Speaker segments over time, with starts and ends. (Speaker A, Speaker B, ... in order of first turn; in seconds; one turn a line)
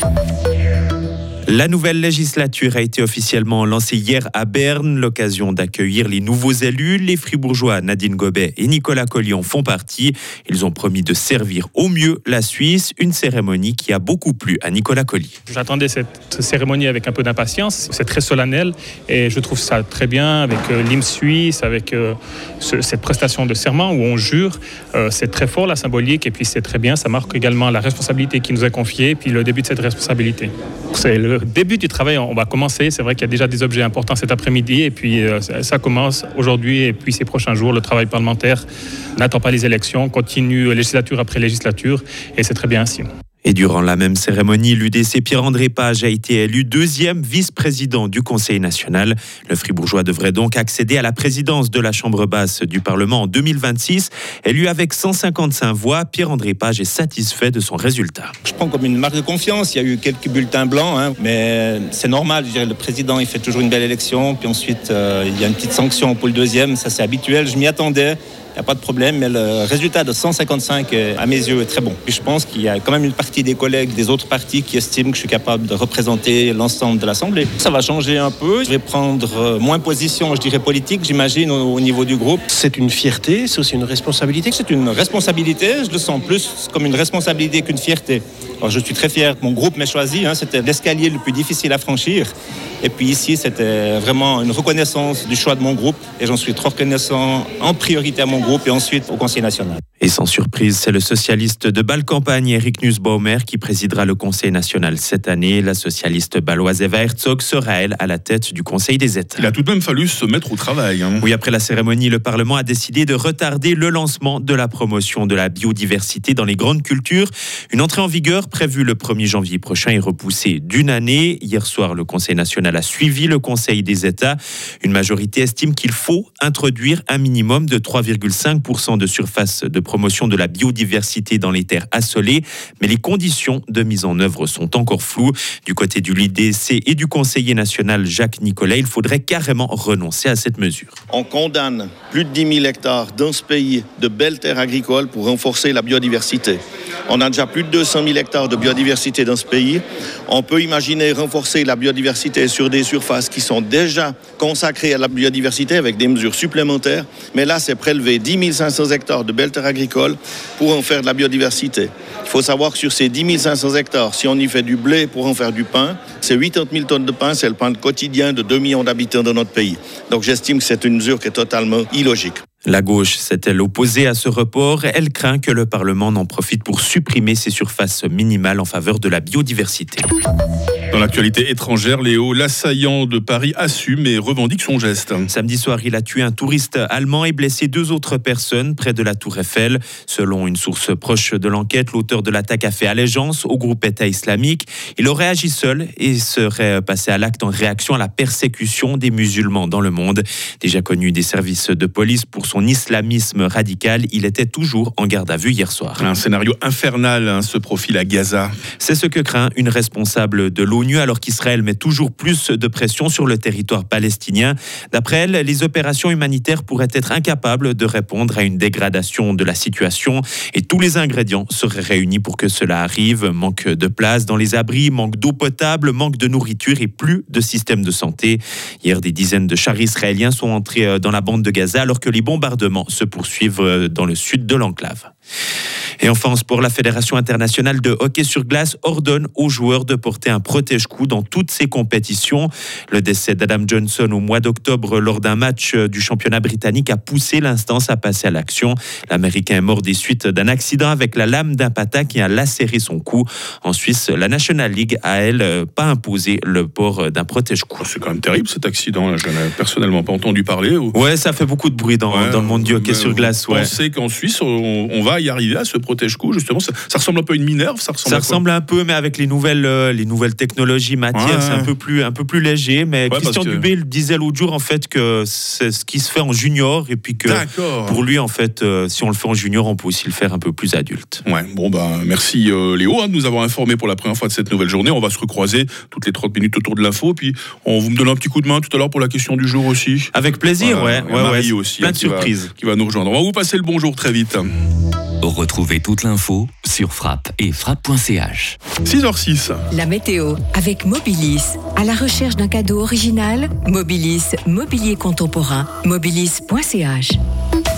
Speaker A: 1.5-15.3
Speaker B: 15.5-38.6
Speaker B: 39.2-43.0
Speaker A: 43.4-58.3
Speaker C: 58.4-82.4
Speaker D: 82.5-84.6
Speaker C: 84.5-92.3
Speaker C: 92.8-99.8
Speaker A: 100.0-109.5
Speaker E: 109.4-111.3
Speaker A: 111.2-141.0
Speaker F: 141.1-172.4
Speaker A: 172.7-180.1
Speaker E: 180.9-185.3
Speaker A: 185.3-206.0
Speaker E: 206.0-208.5
Speaker A: 208.8-235.1
Speaker A: 236.0-257.8
Speaker E: 257.8-260.9
Speaker A: 260.9-263.7
Speaker E: 262.1-268.4
Speaker A: 268.0-281.2
Speaker E: 271.1-271.7
Speaker E: 273.1-273.6
Speaker E: 277.2-278.0
Speaker E: 281.2-294.4
Speaker A: 290.1-292.5
Speaker G: 295.2-298.6
Speaker E: 298.8-299.6
Speaker H: 299.7-307.2